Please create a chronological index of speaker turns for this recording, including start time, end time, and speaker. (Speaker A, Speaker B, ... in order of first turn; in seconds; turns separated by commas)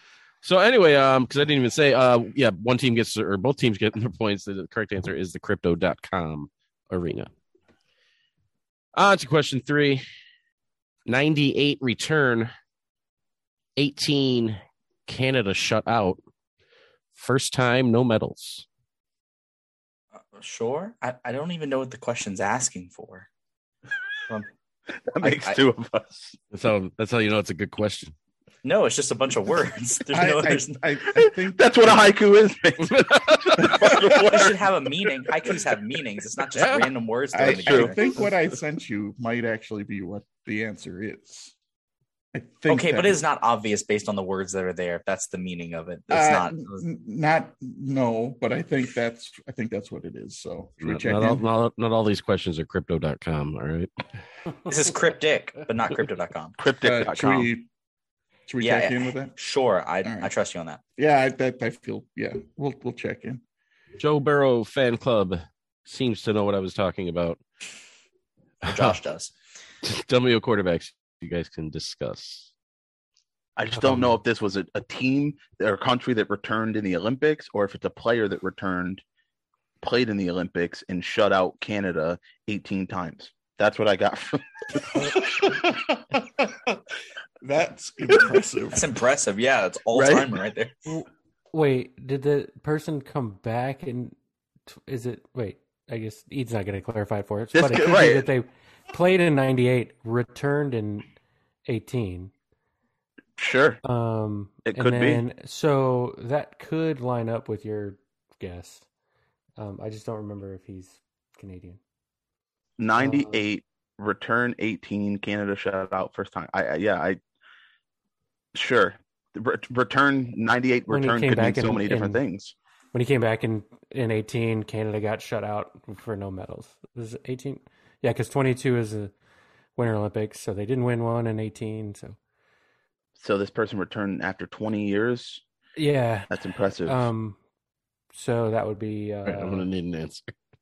Speaker A: 0.4-7.3, Speaker A: 8.9-10.0, Speaker A: 11.1-12.5, Speaker A: 13.8-16.2, Speaker A: 17.1-18.6, Speaker B: 20.3-23.3, Speaker C: 25.1-26.4, Speaker B: 25.2-25.6, Speaker A: 26.5-28.1, Speaker B: 28.6-30.8, Speaker D: 30.1-32.1, Speaker C: 31.5-34.6, Speaker A: 32.8-33.8, Speaker D: 33.6-34.2, Speaker B: 33.8-38.2, Speaker A: 36.5-36.9, Speaker D: 37.3-41.5, Speaker C: 37.4-38.0, Speaker D: 42.3-43.2, Speaker B: 42.7-46.8, Speaker D: 46.1-51.4, Speaker A: 50.8-53.9, Speaker B: 54.6-56.6, Speaker C: 56.6-57.5, Speaker D: 56.8-57.6, Speaker D: 58.5-59.3, Speaker B: 58.6-60.8, Speaker D: 60.0-60.3, Speaker D: 61.0-63.4, Speaker A: 64.0-67.4, Speaker A: 68.6-69.0, Speaker B: 68.6-69.3, Speaker A: 69.8-72.5, Speaker C: 73.5-79.0, Speaker E: 73.8-74.0, Speaker C: 79.8-85.2, Speaker D: 85.0-86.7, Speaker D: 87.4-88.9, Speaker B: 88.7-90.7, Speaker C: 89.9-90.3, Speaker E: 90.8-94.1, Speaker E: 94.7-101.1, Speaker C: 97.5-98.3, Speaker E: 101.7-102.3, Speaker C: 103.4-103.8, Speaker E: 103.8-108.8, Speaker C: 104.7-105.2, Speaker E: 109.6-111.8, Speaker C: 112.8-117.2, Speaker E: 113.0-113.4, Speaker C: 118.5-122.5, Speaker E: 120.9-122.2, Speaker E: 122.9-129.1, Speaker E: 129.8-132.2, Speaker C: 133.2-135.4, Speaker E: 135.8-136.3, Speaker C: 136.3-137.0, Speaker E: 136.8-137.4, Speaker E: 138.1-139.7, Speaker A: 139.2-140.3